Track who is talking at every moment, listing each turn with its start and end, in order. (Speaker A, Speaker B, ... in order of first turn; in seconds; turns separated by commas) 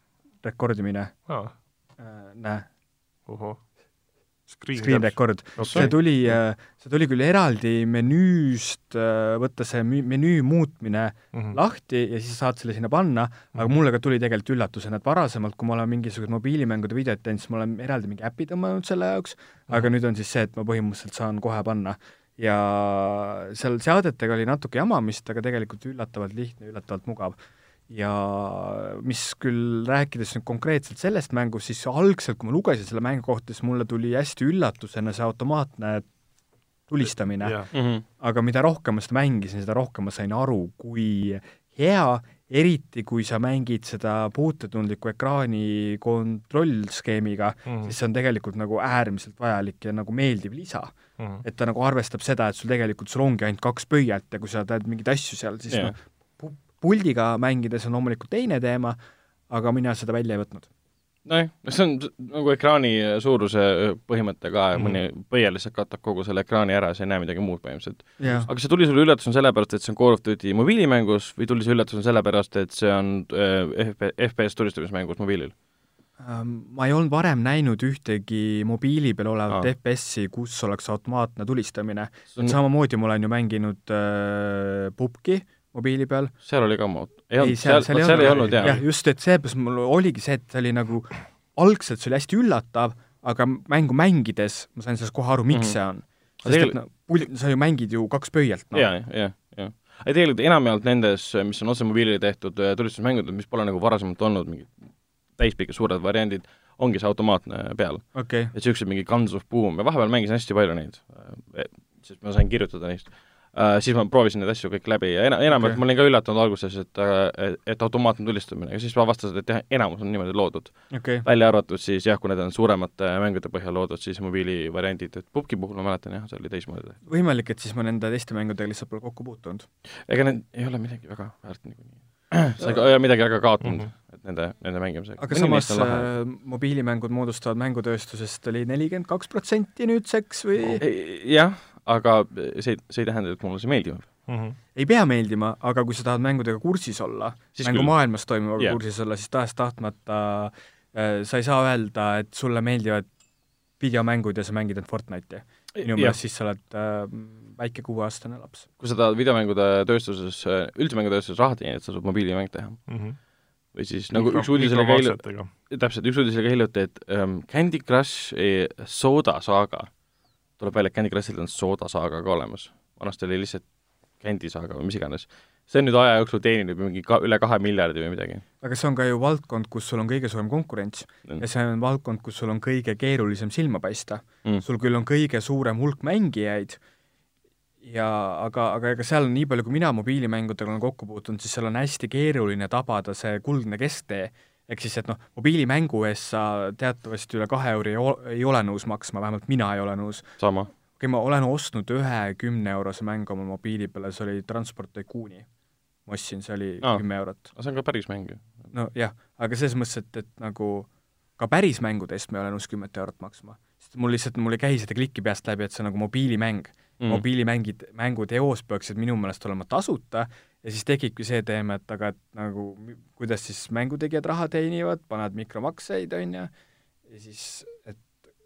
Speaker A: 0.4-1.3, Speaker B: 1.3-1.5, Speaker A: 2.0-2.7, Speaker B: 3.3-3.6, Speaker B: 4.5-6.4, Speaker A: 4.8-27.4, Speaker C: 5.6-5.9, Speaker B: 11.3-11.6, Speaker A: 27.9-36.1, Speaker A: 36.9-59.0, Speaker B: 37.4-37.7, Speaker C: 37.7-38.0, Speaker B: 47.7-47.9, Speaker B: 51.2-51.4, Speaker C: 55.7-56.0, Speaker A: 59.5-60.7, Speaker C: 61.2-75.5, Speaker B: 64.7-65.0, Speaker A: 68.2-68.5, Speaker A: 76.2-86.3, Speaker C: 86.5-88.8, Speaker A: 87.4-98.9, Speaker B: 88.0-88.8, Speaker C: 95.5-95.8, Speaker C: 96.4-96.8, Speaker C: 98.7-127.0, Speaker A: 108.1-108.5, Speaker A: 115.5-115.8, Speaker A: 120.9-121.2, Speaker A: 127.1-129.7, Speaker C: 130.1-136.1, Speaker B: 133.6-133.9, Speaker A: 135.2-140.8, Speaker C: 140.8-144.1, Speaker B: 144.3-144.6, Speaker A: 144.8-153.1, Speaker C: 147.6-147.9, Speaker A: 153.8-158.7, Speaker C: 155.8-156.2, Speaker C: 158.8-163.0, Speaker B: 162.9-163.2, Speaker C: 163.7-169.9, Speaker B: 164.1-165.5, Speaker C: 170.6-178.4, Speaker A: 178.6-186.8, Speaker A: 187.8-205.5, Speaker C: 200.4-200.7, Speaker A: 206.1-207.5, Speaker C: 206.8-208.4, Speaker A: 208.7-226.5, Speaker A: 227.1-228.1